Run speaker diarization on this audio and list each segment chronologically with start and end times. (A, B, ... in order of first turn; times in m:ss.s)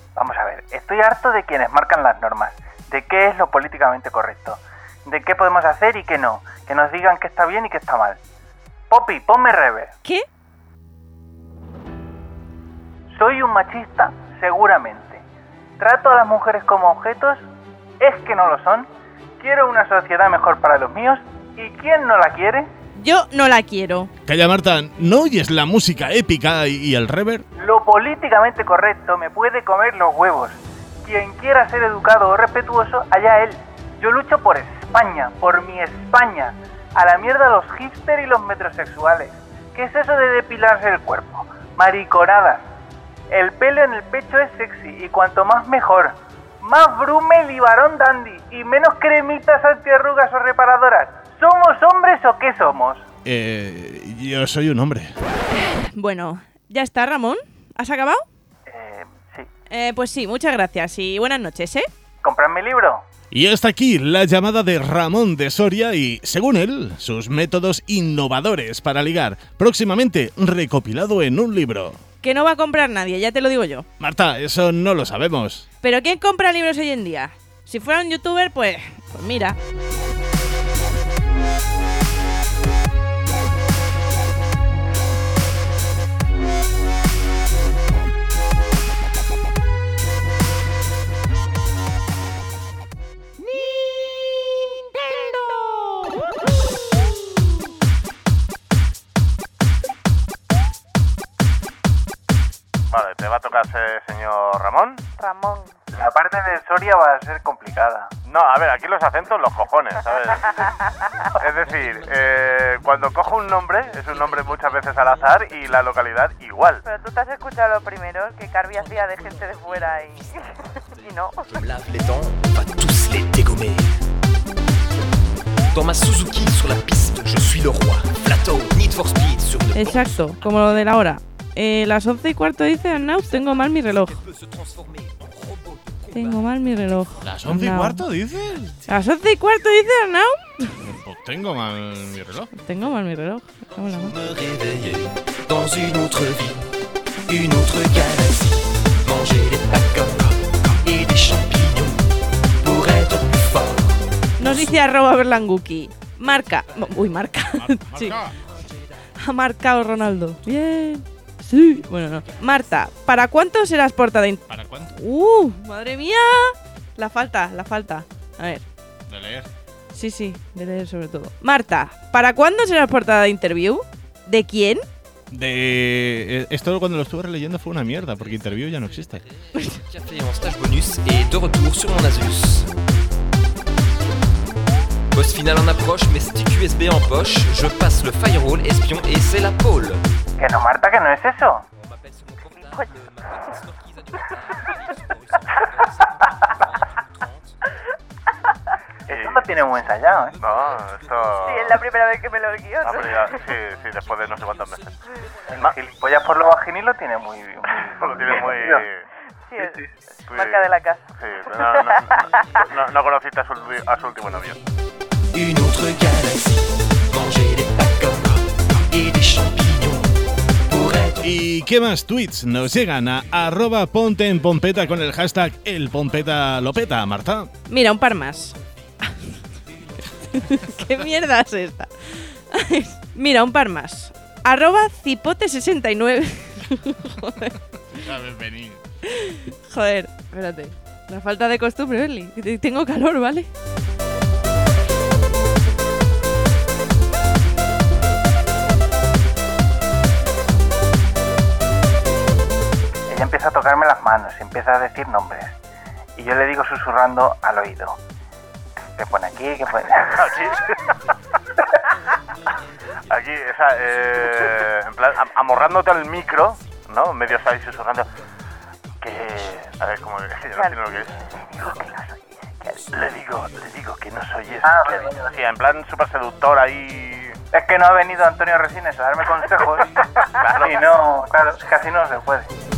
0:00.2-0:08.2 A
0:08.9-0:09.9 A
0:13.1-0:15.2 A
0:15.8-0:17.5 A
0:18.0-0:18.9 A
0:19.4-0:22.7 A
0:23.0-0:24.1 B
0:24.3-0:27.5 C
0:27.6-0:42.7 A
0:43.3-0:53.0 A
0:53.2-0:55.2 C
0:55.5-0:58.2 B
0:58.7-0:59.5 A
0:59.7-1:01.9 B
1:02.2-1:03.0 A
1:03.3-1:12.0 C
1:12.2-1:13.9 B
1:14.0-1:15.6 C
1:15.8-1:19.6 B
1:42.9-1:45.0 D
1:45.2-1:45.7 E
1:45.9-1:48.1 A
1:48.3-1:50.4 D
1:49.3-1:49.6 C
1:51.4-1:56.8 D
1:51.4-1:56.6 C
1:56.8-2:01.5 E
1:58.8-2:00.3 F
2:01.0-2:03.9 F
2:05.7-2:10.3 F
2:09.7-2:14.2 B
2:13.8-2:16.3 F
2:16.1-2:18.1 B
2:17.2-2:18.8 C
2:18.9-2:20.8 B
2:20.8-2:22.5 C
2:22.6-2:24.2 B
2:24.0-2:26.6 F
2:27.3-2:32.0 F
2:32.6-2:34.0 F
2:34.4-2:38.2 B
2:37.6-2:38.3 C
2:39.2-2:44.4 B
2:44.5-2:44.9 C
2:44.9-2:48.6 B
2:49.1-2:49.5 C
2:49.9-2:54.8 B
2:55.3-2:59.2 C
2:59.7-3:02.7 F
3:05.1-3:10.0 F
3:10.4-3:11.6 A
3:12.1-3:13.4 F
3:15.6-3:16.4 F
3:19.1-3:20.4 A
3:19.1-3:19.5 D
3:20.4-3:21.8 D
3:20.4-3:21.8 C
3:21.4-3:23.4 E
3:22.8-3:24.9 D
3:22.9-3:24.7 C
3:25.5-3:28.8 A
3:28.2-3:29.0 C
3:29.5-3:32.5 E
3:29.6-3:29.9 A
3:30.3-3:32.0 D
3:31.4-3:31.6 C
3:32.7-3:34.6 D
3:35.3-3:40.1 F
3:40.7-3:41.2 F
3:41.2-3:47.5 C
3:47.7-3:48.6 B
3:50.2-3:57.5 B
3:58.0-3:58.8 C
3:59.1-4:03.5 B
4:13.1-4:15.6 A
4:16.2-4:18.0 A
4:19.0-4:20.4 A
4:23.1-4:28.1 D
4:29.0-4:31.1 D
4:30.6-4:30.9 E
4:31.5-4:32.8 E
4:32.9-4:37.4 D
4:34.6-4:35.2 A
4:37.5-4:39.9 A
4:40.5-4:42.5 A